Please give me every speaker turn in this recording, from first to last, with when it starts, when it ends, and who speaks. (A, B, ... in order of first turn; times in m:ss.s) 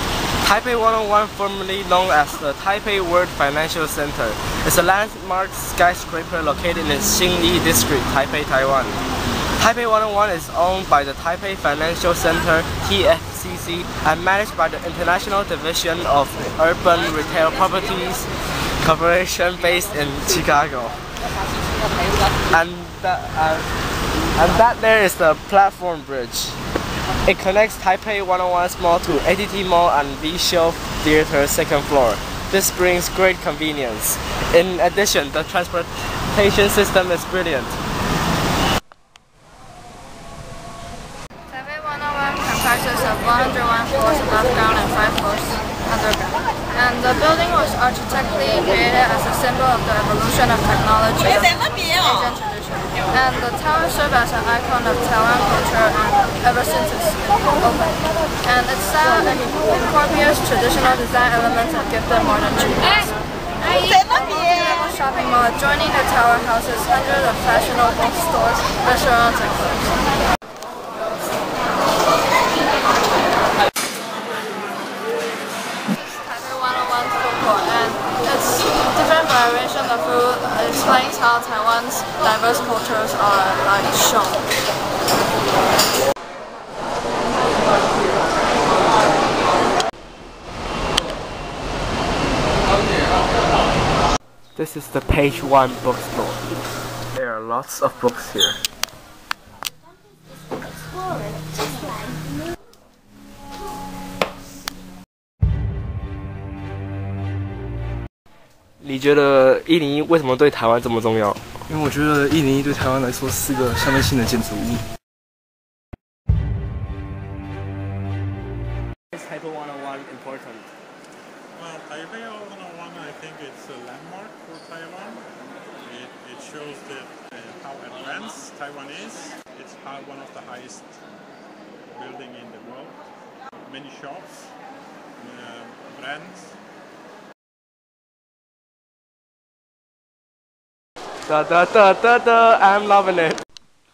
0:00.4-0:09.0 A
0:09.6-0:18.3 A
0:18.8-0:21.0 A
0:22.5-0:23.7 A
0:24.3-0:26.6 A
0:27.2-0:37.8 A
0:41.5-1:10.0 B
1:16.1-1:24.5 B
1:34.6-1:36.4 A
1:37.1-1:38.6 A
1:48.8-1:51.4 A
1:51.7-1:54.8 C
1:59.1-2:00.7 A
2:01.5-2:05.3 D
2:05.8-2:11.0 D
2:11.9-2:13.0 D
2:13.6-2:14.5 D
2:15.2-2:16.6 D
2:21.3-2:23.4 A